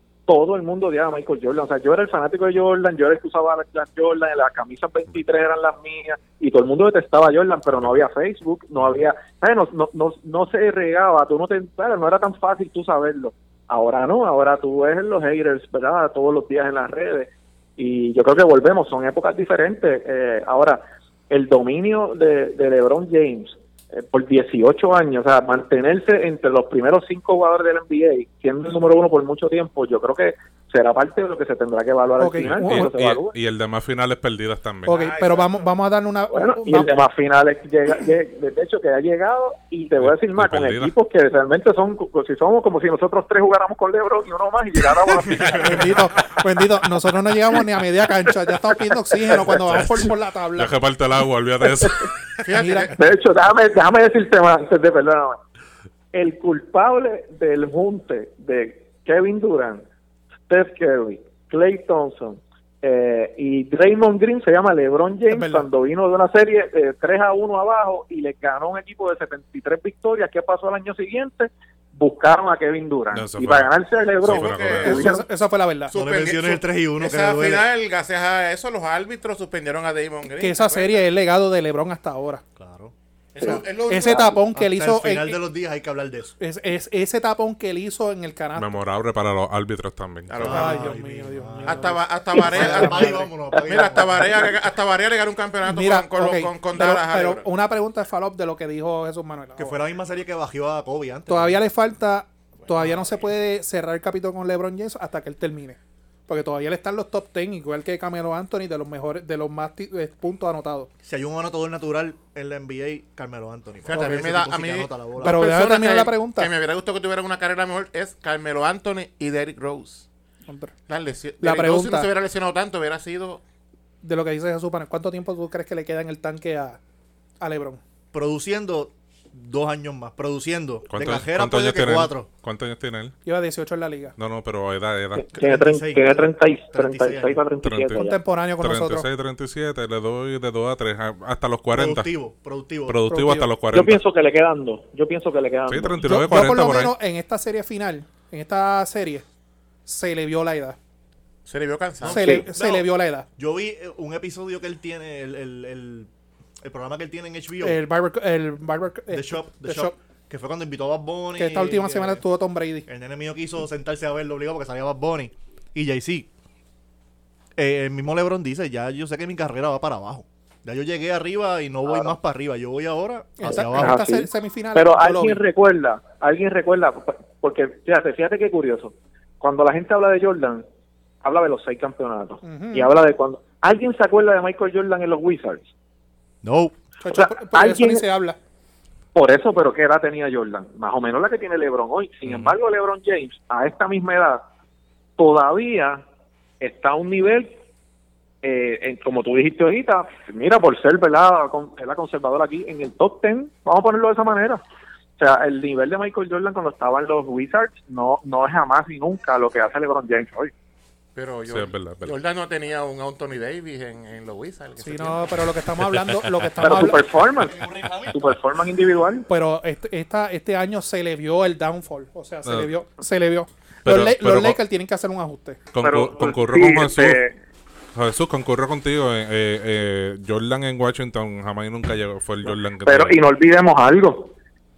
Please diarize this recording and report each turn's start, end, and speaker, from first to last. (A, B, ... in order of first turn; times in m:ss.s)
0:00.3-0:33.3 A
0:07.7-0:08.0 B
0:32.2-0:32.9 C
0:32.4-0:35.0 B
0:34.8-0:36.9 C
0:34.9-0:35.7 D
0:36.3-0:46.0 A
0:40.0-0:40.9 B
0:45.3-0:45.7 E
0:45.6-0:50.7 C
0:49.3-0:49.6 A
0:50.6-0:52.1 B
0:51.8-0:52.0 A
0:52.4-0:53.0 D
0:52.5-0:52.9 C
0:52.9-0:55.4 A
0:56.1-0:59.8 A
1:00.5-1:15.2 A
1:05.3-1:05.7 C
1:13.1-1:15.2 B
1:14.2-1:15.1 D
1:14.8-1:15.9 C
1:15.9-1:21.0 D
1:15.9-1:17.7 E
1:20.4-1:22.4 C
1:22.6-1:22.9 E
1:23.3-1:24.4 D
1:23.4-1:24.3 A
1:23.4-1:25.4 C
1:24.5-1:26.3 E
1:26.4-1:28.8 C
1:28.6-1:30.6 B
1:30.3-1:30.9 D
1:30.4-1:34.5 E
1:30.4-1:33.1 C
1:31.6-1:37.4 D
1:35.6-1:39.8 C
1:39.6-1:41.6 E
1:41.3-1:50.9 C
1:51.0-1:55.4 E
1:53.8-2:00.0 D
1:55.2-1:56.5 C
2:00.5-2:00.7 C
2:00.9-2:03.4 D
2:01.4-2:02.1 C
2:04.0-2:06.8 C
2:07.4-2:07.8 C
2:08.1-2:12.3 E
2:10.9-2:13.1 B
2:13.2-2:14.1 C
2:14.2-2:15.4 B
2:15.2-2:18.2 A
2:15.4-2:17.4 E
2:17.6-2:18.1 B
2:18.0-2:19.0 C
2:18.6-2:22.1 B
2:21.7-2:23.0 E
2:22.9-2:24.0 B
2:23.1-2:23.5 C
2:23.7-2:26.0 A
2:25.7-2:26.9 B
2:26.0-2:29.2 C
2:29.8-2:30.8 C
2:31.4-2:32.3 D
2:32.0-2:37.8 E
2:32.0-2:33.3 C
2:37.6-2:39.9 C
2:39.1-2:42.2 E
2:41.4-2:42.9 C
2:42.9-2:46.3 E
2:47.6-2:54.0 E
2:51.9-2:52.1 A
2:53.4-2:55.4 C
2:53.5-3:00.6 A
3:01.2-3:05.7 A
3:02.4-3:02.9 C
3:06.4-3:06.8 E
3:07.0-3:08.4 C
3:07.1-3:08.0 A
3:09.1-3:14.4 A
3:12.2-3:12.5 B
3:15.2-3:16.0 A
3:16.6-3:17.6 A
3:18.4-3:24.6 A
3:25.2-3:30.5 A
3:31.1-3:35.4 D
3:31.5-3:32.2 B
3:34.8-3:37.0 C
3:36.6-3:39.2 A
3:37.2-3:38.4 E
3:39.3-3:45.6 C
3:43.8-3:44.6 B
3:45.7-3:47.2 B
3:45.8-3:47.4 A
3:47.9-3:53.2 B
3:52.4-3:54.3 A